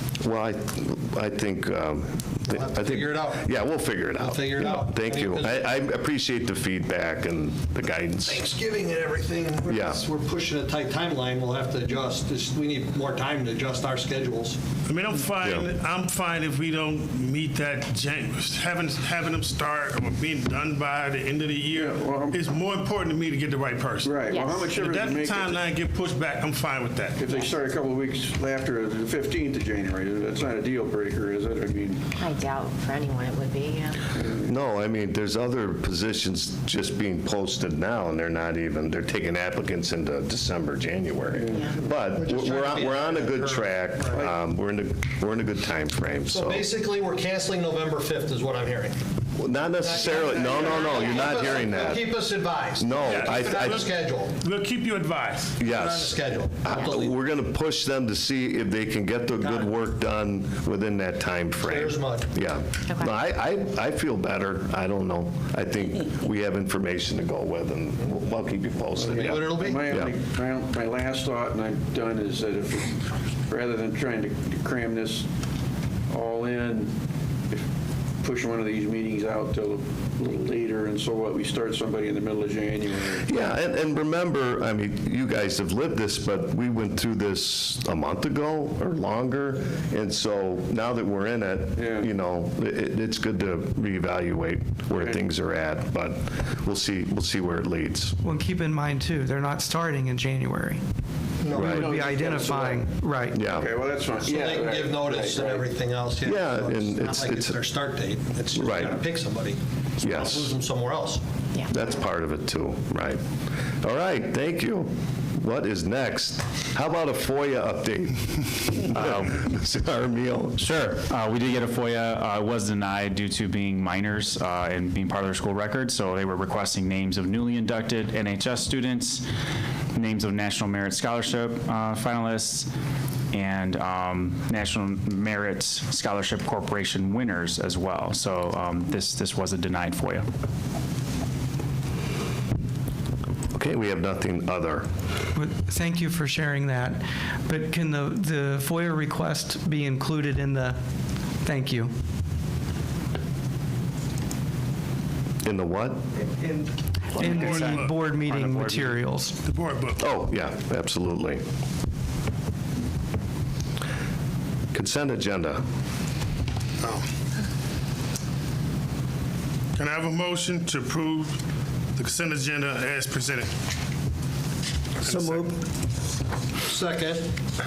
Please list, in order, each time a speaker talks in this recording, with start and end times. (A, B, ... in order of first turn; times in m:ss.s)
0:00.2-0:08.4 A
0:02.5-0:03.5 B
0:04.2-0:05.7 B
0:08.1-0:14.6 B
0:09.7-0:10.0 A
0:14.9-0:27.2 C
0:21.7-0:22.4 D
0:24.0-0:25.6 D
0:24.3-0:24.7 E
0:27.2-0:32.1 D
0:32.1-0:34.0 E
0:34.2-0:34.5 D
0:34.4-0:46.7 A
0:41.3-0:41.8 D
0:42.1-0:44.3 B
0:46.3-0:49.0 B
0:49.4-0:52.2 A
0:49.8-0:54.4 B
0:50.9-0:51.2 E
0:52.8-0:53.9 A
0:53.0-0:55.5 C
0:55.6-1:10.1 A
0:55.6-0:57.2 B
0:59.4-0:59.7 B
1:01.6-1:02.3 B
1:02.9-1:03.1 E
1:09.0-1:15.3 D
1:09.1-1:10.0 B
1:16.1-1:16.9 D
1:18.2-1:23.5 D
1:23.3-1:38.2 A
1:31.8-1:32.1 D
1:35.0-1:35.3 D
1:38.2-1:40.8 F
1:41.4-1:41.8 B
1:41.5-1:41.9 A
1:41.6-1:42.9 D
1:41.7-1:43.4 F
1:43.3-1:43.7 A
1:43.5-1:45.7 D
1:44.2-1:51.2 B
1:46.2-1:47.6 A
1:48.6-1:49.0 A
1:50.0-1:50.5 A
1:51.7-1:53.2 A
1:53.8-2:00.7 A
1:59.0-1:59.3 G
2:00.6-2:09.3 G
2:09.9-2:12.7 G
2:13.3-2:20.3 G
2:23.5-2:24.9 A
2:25.4-2:30.8 F
2:31.4-2:31.9 F
2:35.4-2:36.0 A
2:36.3-2:39.4 F
2:37.2-2:39.0 G
2:37.2-2:38.1 C
2:39.4-2:40.0 C
2:40.0-2:41.4 A
2:44.7-2:45.6 A
2:49.8-2:51.4 C
2:52.0-2:53.5 C
2:55.0-2:55.6 B
2:55.0-2:55.5 C
2:56.7-2:57.3 B